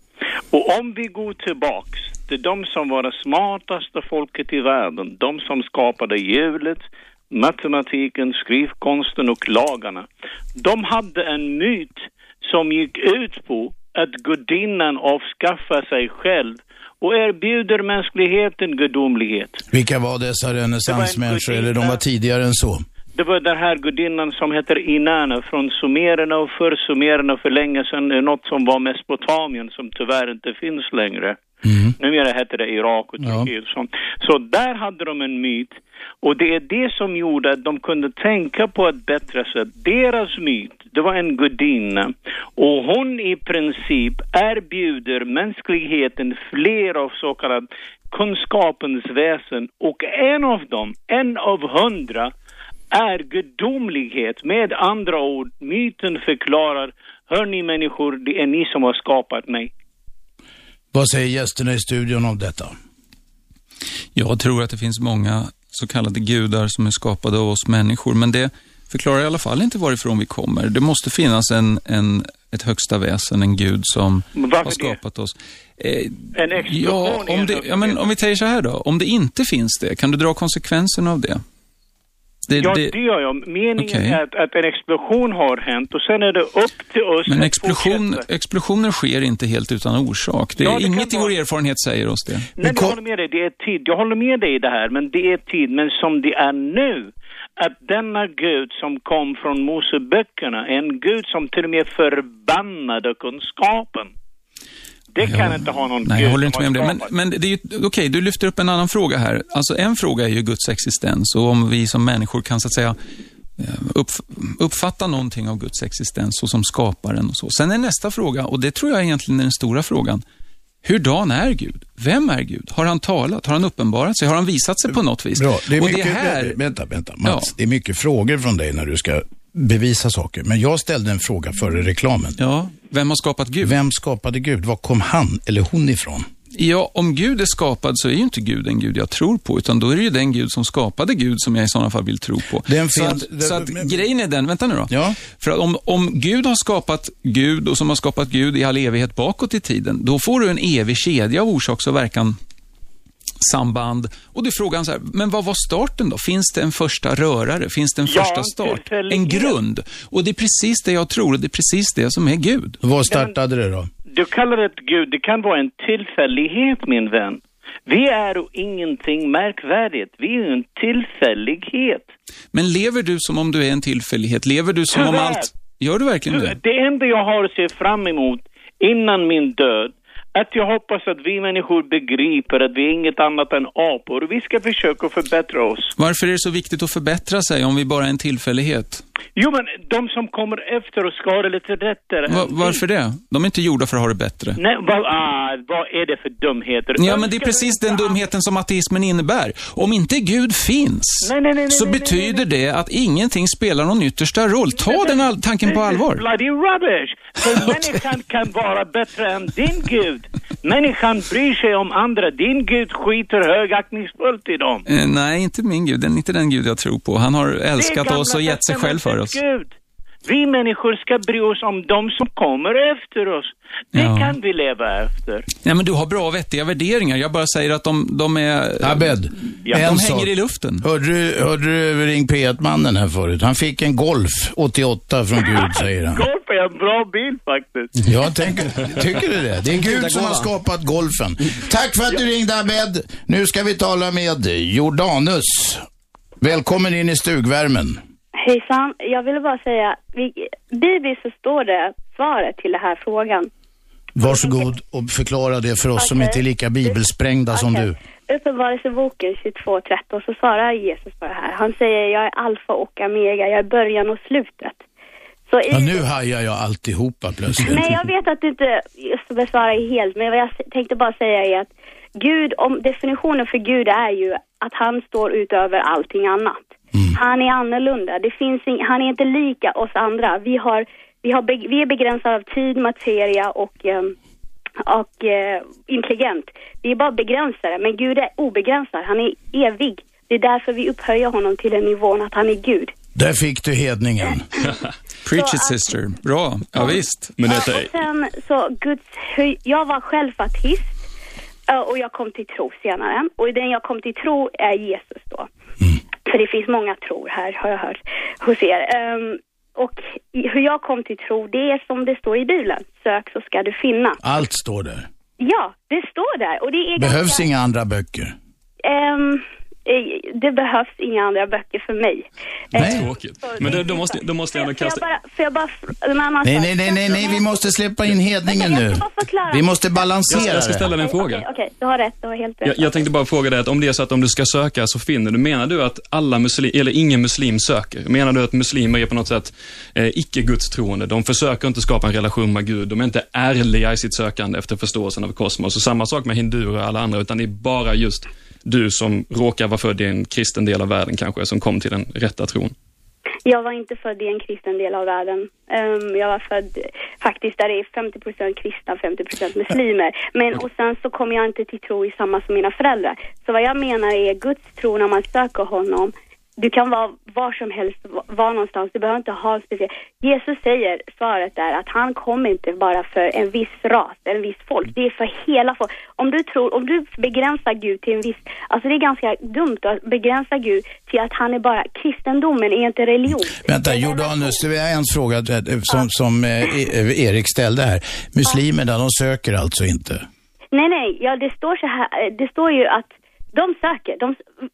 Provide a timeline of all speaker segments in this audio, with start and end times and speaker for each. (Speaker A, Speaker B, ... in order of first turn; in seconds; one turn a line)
Speaker A: 0.5-19.6
Speaker B: 19.7-22.8
Speaker A: 20.9-22.0
Speaker A: 23.1-31.4
Speaker B: 31.6-31.9
Speaker A: 32.0-52.3
Speaker B: 33.2-33.5
Speaker A: 52.9-59.7
Speaker B: 60.9-62.8
Speaker C: 64.2-81.4
Speaker A: 74.3-75.0
Speaker A: 76.3-78.2
Speaker C: 82.5-83.0
Speaker A: 82.5-88.2
Speaker C: 83.8-84.2
Speaker C: 87.3-92.5
Speaker A: 90.6-91.4
Speaker A: 92.6-104.1
Speaker B: 92.6-93.0
Speaker A: 105.1-107.1
Speaker C: 105.2-113.0
Speaker C: 113.6-120.2
Speaker C: 120.8-126.6
Speaker B: 124.9-132.4
Speaker C: 127.2-127.5
Speaker C: 132.4-133.8
Speaker B: 133.6-136.3
Speaker C: 136.5-152.4
Speaker B: 142.7-144.0
Speaker B: 144.9-145.2
Speaker C: 153.4-162.8
Speaker A: 158.1-159.6
Speaker B: 162.8-163.9
Speaker A: 163.1-163.3
Speaker A: 164.1-172.1
Speaker C: 172.5-176.6
Speaker A: 174.9-175.5
Speaker A: 176.3-185.9
Speaker C: 186.0-189.0
Speaker A: 189.4-192.8
Speaker C: 192.3-194.6
Speaker A: 194.6-198.3
Speaker C: 197.0-206.2
Speaker A: 201.2-202.5
Speaker A: 204.7-214.8
Speaker C: 207.5-207.8
Speaker C: 214.9-219.4
Speaker A: 217.8-219.7
Speaker A: 220.2-225.5
Speaker C: 223.9-224.4
Speaker C: 225.7-230.8
Speaker B: 228.8-230.3
Speaker B: 230.8-236.2
Speaker A: 235.4-238.3
Speaker B: 238.1-245.8
Speaker B: 246.4-248.0
Speaker D: 248.4-253.5
Speaker B: 254.2-257.9
Speaker D: 254.2-254.7
Speaker D: 256.0-257.0
Speaker D: 257.5-264.8
Speaker D: 265.5-266.1
Speaker B: 265.7-268.0
Speaker D: 267.6-284.1
Speaker D: 284.8-292.9
Speaker B: 293.2-294.5
Speaker C: 295.2-297.4
Speaker D: 295.3-295.9
Speaker E: 296.7-297.9
Speaker D: 297.5-300.9
Speaker D: 301.7-305.5
Speaker D: 306.3-314.2
Speaker B: 314.2-315.1
Speaker D: 315.4-317.5
Speaker B: 317.0-318.3
Speaker D: 318.8-327.6
Speaker E: 322.8-325.0
Speaker B: 322.8-323.1
Speaker B: 326.4-330.9
Speaker D: 328.4-333.1
Speaker E: 330.3-331.4
Speaker E: 332.6-352.7
Speaker D: 353.5-384.6
Speaker B: 383.6-390.2
Speaker D: 390.7-394.4